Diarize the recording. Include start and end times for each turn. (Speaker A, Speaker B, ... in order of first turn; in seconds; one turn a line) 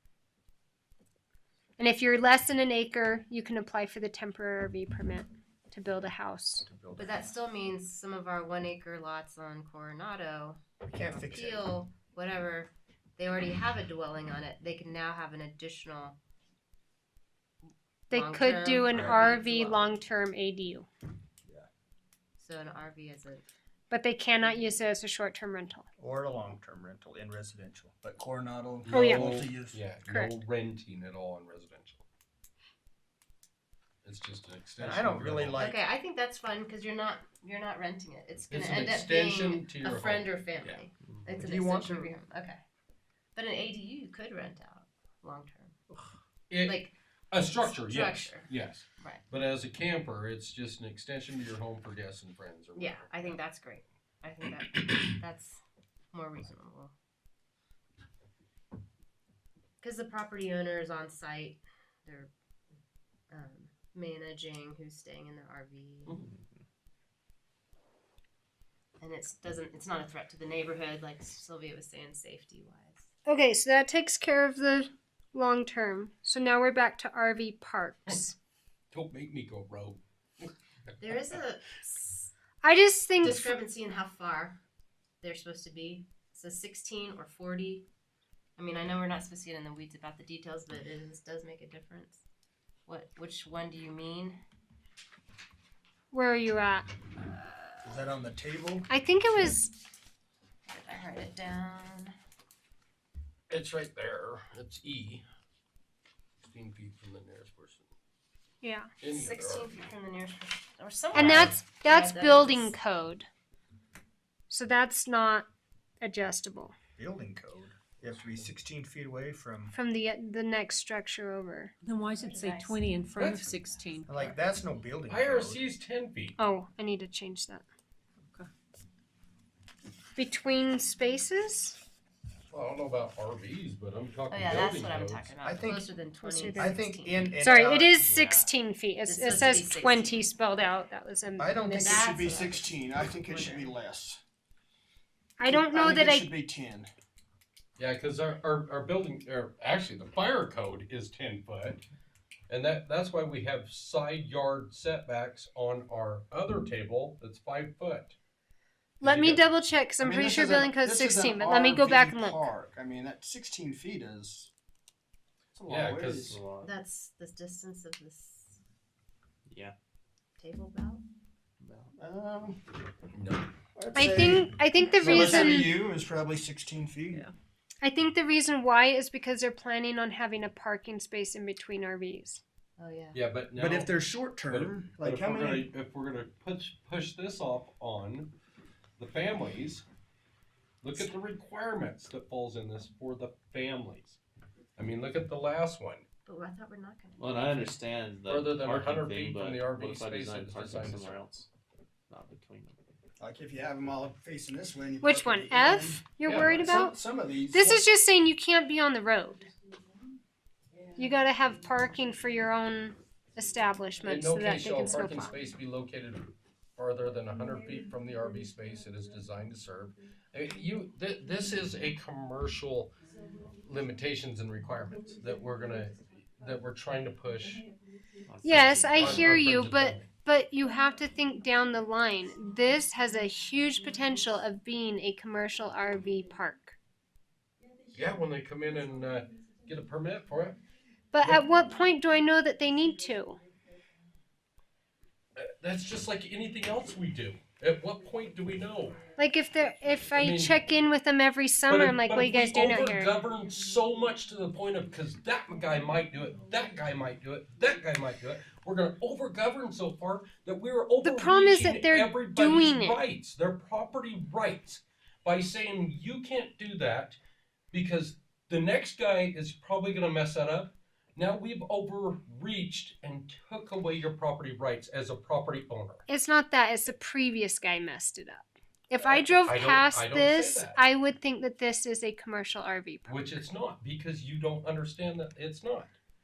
Speaker A: 1.8-6.7
Speaker B: 6.7-7.3
Speaker C: 6.9-16.2
Speaker B: 10.8-11.7
Speaker C: 18.1-20.0
Speaker A: 18.1-20.9
Speaker C: 22.4-23.4
Speaker A: 23.9-25.8
Speaker B: 26.0-29.8
Speaker D: 28.8-32.0
Speaker A: 28.9-29.4
Speaker A: 30.0-30.3
Speaker D: 34.0-35.7
Speaker B: 34.8-35.8
Speaker C: 35.5-42.6
Speaker D: 38.5-40.8
Speaker E: 41.0-41.3
Speaker B: 41.4-42.1
Speaker C: 43.3-45.8
Speaker D: 46.5-53.4
Speaker C: 46.6-49.2
Speaker C: 52.7-55.6
Speaker C: 56.1-56.9
Speaker C: 59.8-62.3
Speaker C: 63.3-66.2
Speaker C: 69.0-73.1
Speaker A: 73.2-78.3
Speaker D: 78.9-80.0
Speaker C: 80.4-82.3
Speaker D: 81.0-81.4
Speaker A: 82.6-83.6
Speaker C: 83.2-84.6
Speaker C: 85.2-87.8
Speaker C: 88.6-92.2
Speaker C: 92.8-94.4
Speaker A: 96.1-96.9
Speaker C: 97.2-97.7
Speaker B: 97.8-98.9
Speaker A: 98.9-99.7
Speaker C: 100.7-102.1
Speaker D: 103.5-105.2
Speaker D: 106.4-107.9
Speaker A: 108.6-108.9
Speaker D: 109.0-109.8
Speaker C: 109.1-112.7
Speaker A: 111.1-113.3
Speaker A: 114.5-115.5
Speaker A: 116.0-116.7
Speaker B: 117.0-119.7
Speaker A: 119.7-121.8
Speaker F: 121.8-124.3
Speaker C: 122.2-122.8
Speaker D: 123.2-123.5
Speaker B: 124.0-125.6
Speaker D: 125.1-126.3
Speaker A: 126.4-127.6
Speaker A: 130.2-131.8
Speaker D: 132.5-135.3
Speaker C: 134.3-137.4
Speaker B: 135.4-135.9
Speaker A: 136.2-136.8
Speaker B: 136.5-138.0
Speaker A: 137.4-142.1
Speaker E: 138.0-138.5
Speaker C: 139.0-140.3
Speaker B: 141.4-144.2
Speaker C: 141.8-143.7
Speaker A: 145.4-146.3
Speaker B: 145.4-146.9
Speaker D: 147.8-151.8
Speaker D: 152.5-158.2
Speaker D: 159.0-159.4
Speaker A: 159.0-162.5
Speaker B: 160.0-164.5
Speaker B: 165.5-166.4
Speaker D: 165.7-166.3
Speaker E: 166.2-166.7
Speaker C: 166.6-168.6
Speaker E: 169.5-169.7
Speaker C: 170.4-171.0
Speaker E: 171.6-171.9
Speaker B: 171.9-172.6
Speaker D: 173.1-173.5
Speaker B: 173.8-177.2
Speaker A: 173.9-175.8
Speaker C: 175.0-175.6
Speaker A: 177.8-182.4
Speaker C: 182.8-183.2
Speaker D: 183.1-188.3
Speaker B: 183.5-185.7
Speaker D: 189.0-189.8
Speaker D: 190.8-194.2
Speaker D: 194.8-196.0
Speaker C: 196.2-197.7
Speaker E: 197.2-201.5
Speaker D: 198.3-201.2
Speaker E: 202.1-202.8
Speaker B: 203.2-207.8
Speaker A: 205.0-207.0
Speaker D: 206.2-206.6
Speaker A: 207.5-209.5
Speaker A: 211.0-215.3
Speaker D: 214.0-222.9
Speaker D: 223.6-227.7
Speaker E: 228.3-229.7
Speaker A: 228.4-236.7
Speaker D: 228.9-230.1
Speaker D: 237.9-240.6
Speaker A: 241.1-243.4
Speaker D: 245.4-249.1
Speaker A: 249.2-253.1
Speaker D: 250.1-250.6
Speaker D: 251.7-267.2
Speaker A: 261.0-263.0
Speaker D: 267.7-276.0
Speaker A: 276.1-283.4
Speaker D: 279.4-280.8
Speaker D: 283.1-285.9